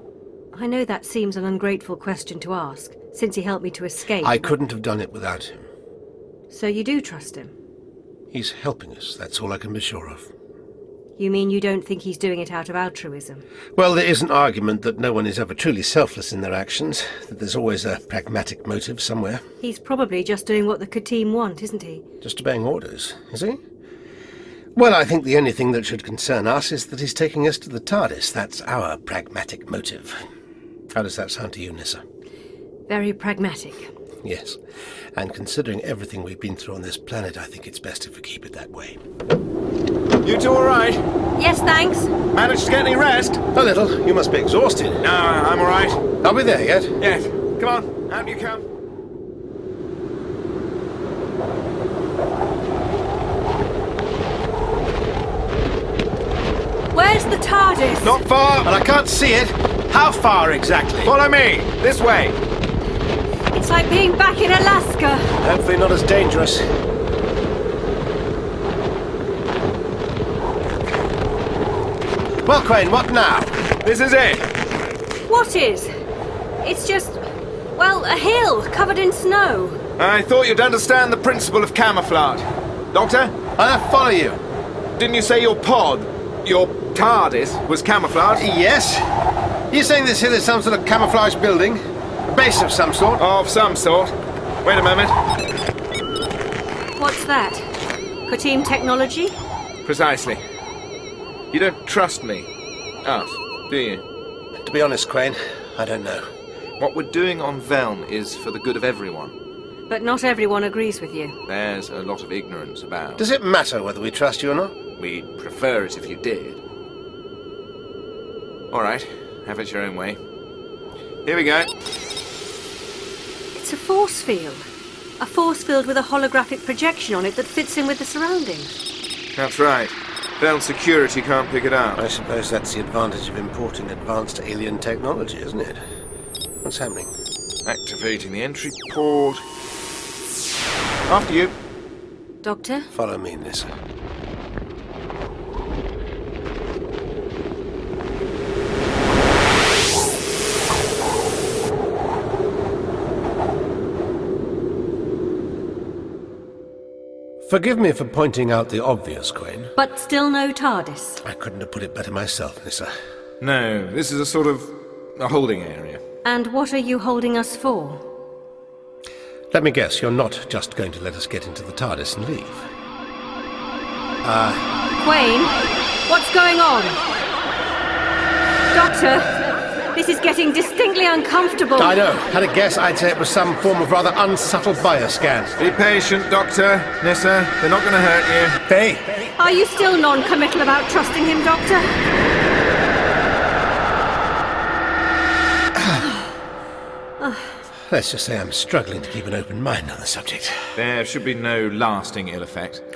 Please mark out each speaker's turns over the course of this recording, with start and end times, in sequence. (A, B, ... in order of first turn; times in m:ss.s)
0:00.5-0:04.6 A
0:04.2-0:05.7 B
0:06.5-0:07.5 A
0:08.3-0:10.3 B
0:11.2-0:13.4 A
0:13.8-0:19.4 B
0:19.6-0:22.0 A
0:22.2-0:23.6 B
0:24.8-0:30.2 B
0:30.9-0:32.0 B
0:32.9-0:33.9 A
0:34.2-0:34.6 B
0:35.2-0:39.0 B
0:40.2-0:41.0 C
0:41.4-0:42.1 A
0:42.3-0:43.4 C
0:43.5-0:45.0 B
0:45.0-0:46.0 C
0:46.2-0:46.9 B
0:47.0-0:48.6 C
0:56.9-0:58.2 A
0:58.0-0:58.7 C
0:58.6-1:01.1 B
1:01.0-1:02.4 C
1:03.5-1:05.3 A
1:05.4-1:06.6 B
1:12.4-1:13.6 B
1:13.8-1:14.4 C
1:15.3-1:15.9 A
1:16.6-1:17.2 A
1:17.8-1:19.8 A
1:20.0-1:23.3 C
1:23.6-1:24.4 B
1:25.0-1:28.4 C
1:28.4-1:29.1 B
1:29.7-1:33.2 B
1:33.2-1:34.1 C
1:34.6-1:35.2 C
1:37.0-1:37.6 A
1:38.3-1:39.3 A
1:39.8-1:40.4 C
1:41.5-1:42.5 C
1:43.0-1:44.0 C
1:44.6-1:46.3 B
1:46.8-1:49.3 C
1:49.9-1:51.4 A
1:51.5-1:53.2 C
1:53.2-1:54.8 B
1:55.0-1:56.6 C
1:58.7-2:00.2 C
2:01.2-2:01.7 C
2:03.6-2:04.6 A
2:05.2-2:08.8 A
2:09.4-2:12.0 C
2:12.0-2:15.8 B
2:16.6-2:17.1 B
2:17.6-2:19.4 C
2:21.1-2:21.6 C
2:22.4-2:22.9 A
2:22.9-2:23.7 B
2:37.5-2:39.7 B
2:39.8-2:41.2 A
2:41.2-2:42.9 B
2:43.4-2:46.0 C
2:46.2-2:48.0 A
2:49.5-2:52.7 B
2:54.2-2:54.6 B
2:55.0-2:57.0 A
2:58.7-2:59.3 A
2:59.9-3:02.0 A
3:01.8-3:05.6 B
3:05.6-3:08.6 C
3:08.7-3:09.0 B
3:09.4-3:11.9 A
3:17.9-3:20.7 B
3:20.8-3:22.8 C